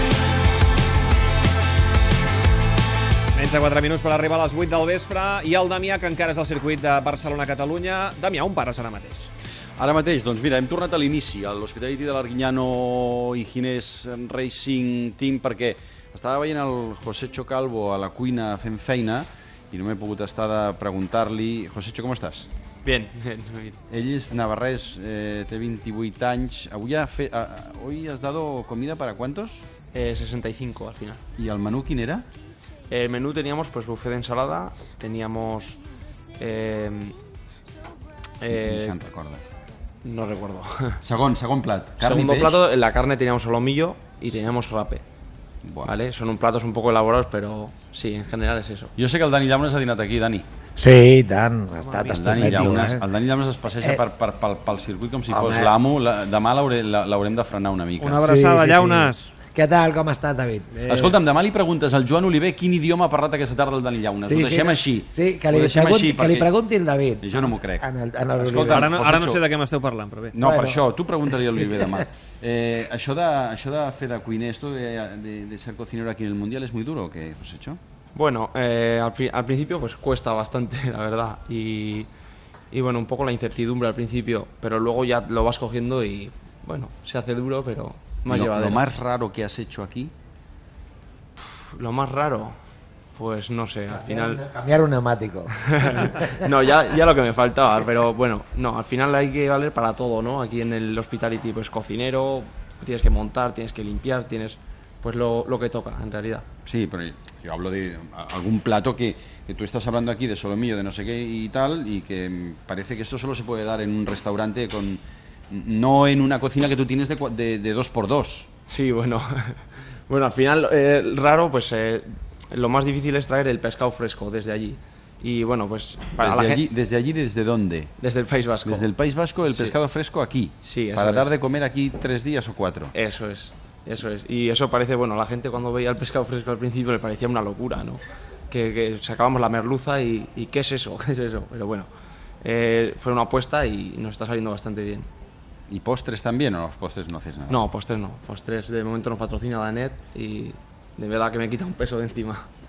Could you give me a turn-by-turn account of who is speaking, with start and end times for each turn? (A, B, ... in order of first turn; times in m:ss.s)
0:03.3-0:09.3 A
0:09.8-0:22.5 B
0:22.8-0:23.8 C
0:23.9-0:29.6 B
0:29.9-0:31.2 C
0:31.4-0:32.3 B
0:32.9-0:35.8 C
0:36.4-0:37.2 C
0:38.4-0:39.0 C
0:38.5-0:39.4 B
0:40.0-0:41.0 C
0:41.0-0:42.6 B
0:42.0-0:45.0 C
0:45.6-0:45.9 B
0:45.8-0:48.9 C
0:49.0-0:50.4 B
0:50.8-0:53.0 D
0:51.8-0:52.8 A
0:52.0-0:58.3 B
0:55.3-0:55.7 D
0:58.0-0:59.3 A
0:58.2-1:01.1 D
1:00.8-1:06.5 B
1:04.2-1:09.0 D
1:07.2-1:09.4 B
1:08.6-1:10.3 A
1:10.3-1:17.8 B
1:10.4-1:10.8 D
1:11.5-1:12.0 D
1:18.1-1:22.1 C
1:22.7-1:28.9 C
1:28.3-1:30.1 B
1:31.4-1:32.6 C
1:33.1-1:34.4 C
1:33.9-1:36.4 D
1:35.6-1:46.4 C
1:46.6-1:58.5 B
1:58.7-2:06.7 C
2:06.2-2:07.9 B
2:08.0-2:08.9 C
2:08.6-2:12.9 B
2:09.5-2:09.8 C
2:10.6-2:11.3 C
2:12.9-2:21.9 C
2:22.4-2:25.1 C
2:25.7-2:27.6 B
2:27.5-2:32.5 C